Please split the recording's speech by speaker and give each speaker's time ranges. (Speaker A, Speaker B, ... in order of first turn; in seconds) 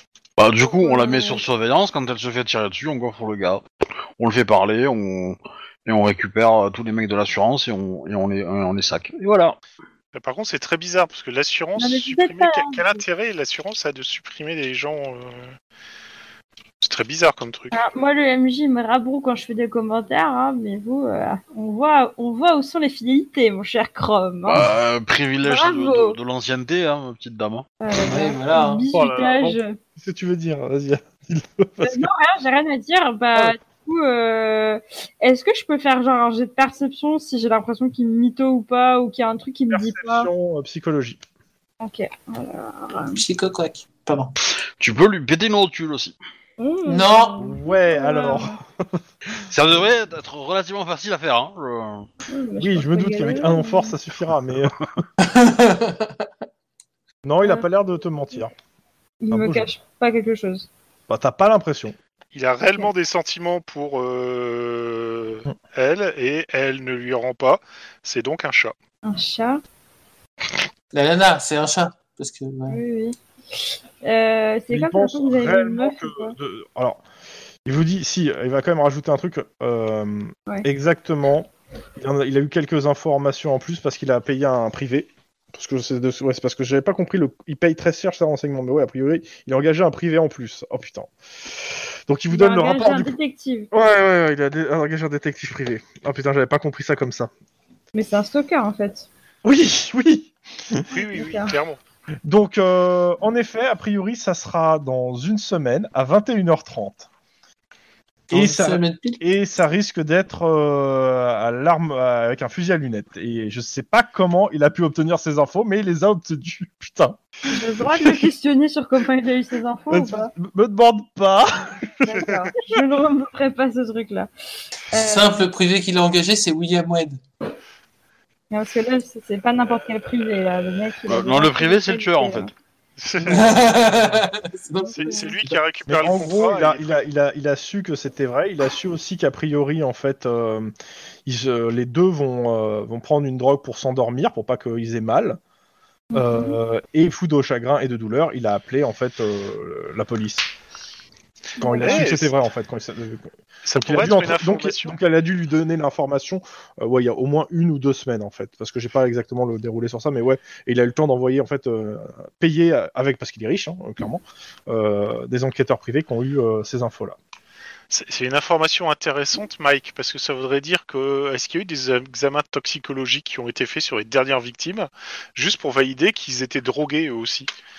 Speaker A: 0.4-3.6, 4.2-9.6, 24.5-27.6, 44.8-46.1, 49.5-52.1, 131.1-132.5
Speaker B: 0.6-1.4, 11.8-13.0, 17.7-24.7, 25.4-26.2, 27.8-29.8, 31.8-40.3, 41.8-43.2, 46.6-48.6, 52.3-53.9, 59.2-60.7, 69.0-69.6, 72.7-76.3, 92.3-93.7, 97.9-99.1, 101.1-101.5, 117.5-120.3, 122.0-124.3, 124.9-125.5, 128.5-132.5, 134.9-135.3, 146.1-146.6, 151.6-152.1
Speaker C: 10.1-15.5, 16.8-17.8, 62.3-68.7, 100.9-101.8, 133.0-133.8, 134.9-137.0, 151.8-152.3, 153.6-154.9, 167.9-177.5
Speaker D: 28.0-28.9, 43.1-44.3, 46.9-47.3, 55.2-56.3, 70.9-72.8, 108.3-109.2, 124.9-127.2, 133.2-135.6
Speaker E: 28.9-32.1, 39.7-41.2, 47.4-49.5, 52.6-54.9, 57.2-58.5, 59.3-59.6, 61.1-62.0, 74.7-77.0, 77.6-93.1, 93.7-97.3, 99.4-100.9, 102.2-107.1, 108.3-117.2, 117.9-118.3, 119.9-122.0, 135.9-140.7, 141.2-145.4, 146.1-150.5, 151.6-167.2